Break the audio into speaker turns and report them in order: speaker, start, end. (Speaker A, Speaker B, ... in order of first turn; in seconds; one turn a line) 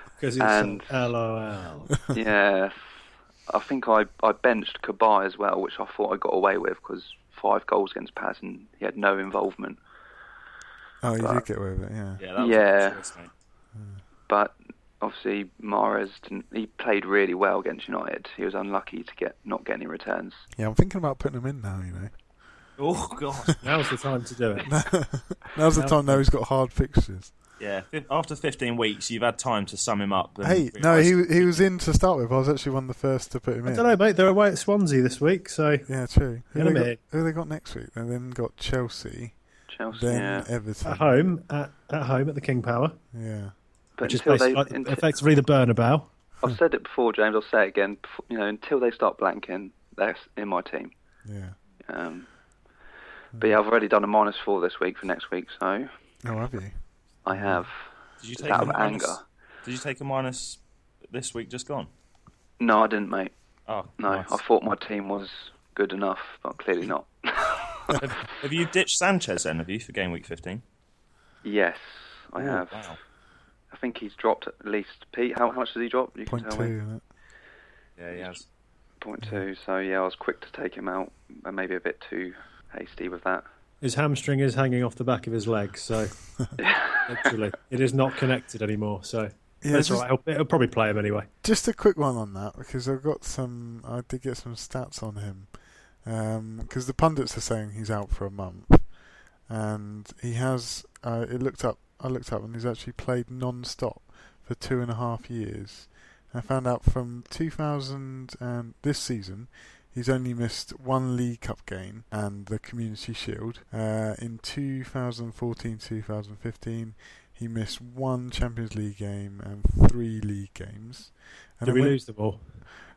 Speaker A: 0.2-1.9
Speaker B: 0.4-0.9
Speaker B: 2.1-2.8
Speaker B: 3.5-9.8
Speaker C: 11.0-12.2
Speaker B: 11.2-11.4
Speaker D: 12.2-13.3
Speaker B: 12.4-13.0
Speaker C: 13.7-14.0
Speaker B: 14.3-20.4
Speaker C: 20.5-22.1
Speaker D: 22.8-23.6
Speaker A: 23.6-24.8
Speaker C: 24.6-27.3
Speaker A: 25.7-26.2
Speaker D: 27.6-31.6
Speaker C: 30.4-33.9
Speaker A: 33.6-35.9
Speaker C: 35.9-39.4
Speaker A: 36.5-37.0
Speaker B: 39.7-40.5
Speaker C: 39.9-41.1
Speaker A: 40.8-43.0
Speaker C: 43.1-43.5
Speaker B: 44.0-45.1
Speaker A: 44.0-46.1
Speaker B: 46.4-50.9
Speaker C: 51.2-51.5
Speaker B: 51.8-52.3
Speaker B: 53.4-55.9
Speaker C: 56.2-56.8
Speaker B: 57.2-57.8
Speaker C: 57.3-57.6
Speaker D: 58.2-61.9
Speaker B: 58.3-59.2
Speaker B: 62.6-63.3
Speaker D: 63.7-64.4
Speaker B: 64.0-68.0
Speaker D: 67.9-70.6
Speaker B: 71.4-72.8
Speaker D: 72.4-73.0
Speaker B: 73.7-76.7
Speaker C: 76.3-77.0
Speaker D: 78.0-78.4
Speaker B: 79.0-83.4
Speaker A: 83.8-86.2
Speaker B: 86.6-87.1
Speaker A: 87.0-91.3
Speaker C: 89.6-90.0
Speaker C: 91.4-95.5
Speaker C: 96.0-122.0
Speaker A: 121.6-122.6